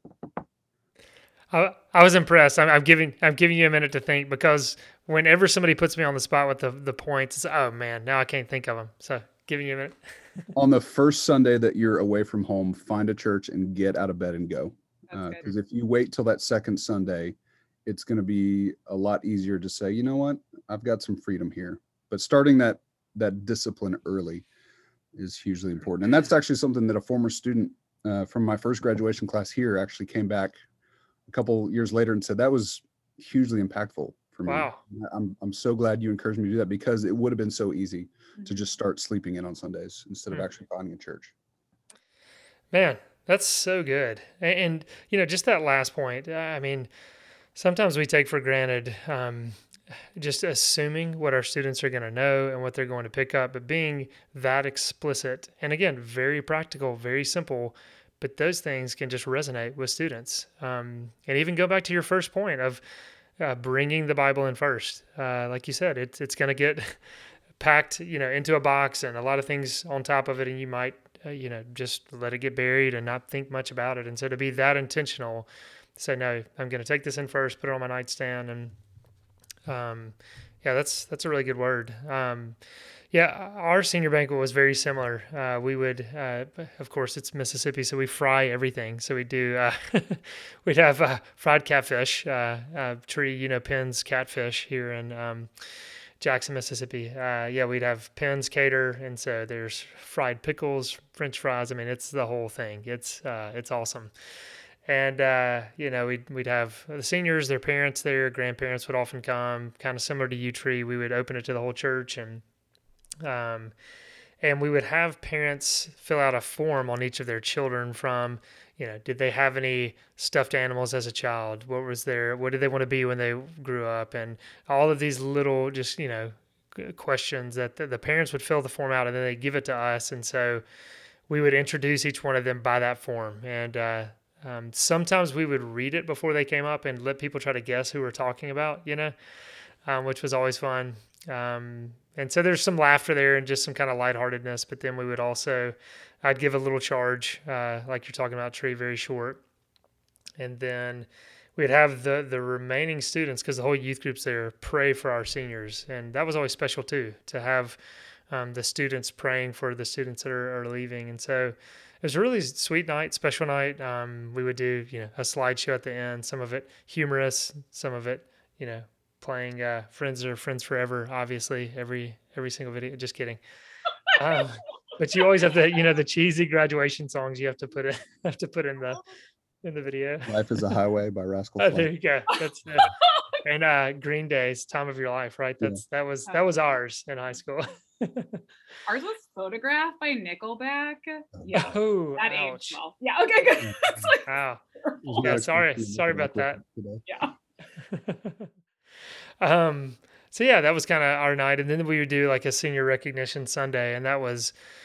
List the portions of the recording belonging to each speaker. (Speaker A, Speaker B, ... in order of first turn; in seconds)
Speaker A: 1.5-9.9, 34.5-34.8, 42.7-46.9, 47.5-49.6, 50.1-62.8, 63.4-67.0, 67.6-78.7, 79.7-82.6, 83.1-95.5, 96.2-104.1, 104.8-112.4, 113.2-113.7, 114.4-130.6, 131.3-139.1, 139.8-149.4, 150.4-157.8, 158.3-173.4, 174.1-179.0, 179.6-180.3, 181.6-182.9, 183.4-188.4, 191.5-192.8, 194.3-194.6, 195.1-196.6, 197.9-198.5, 199.4-204.5
Speaker B: 10.5-24.4, 25.1-30.6, 31.3-41.3, 180.2-181.9, 195.0-197.0
Speaker C: 15.1-15.4, 188.9-194.2, 197.1-197.3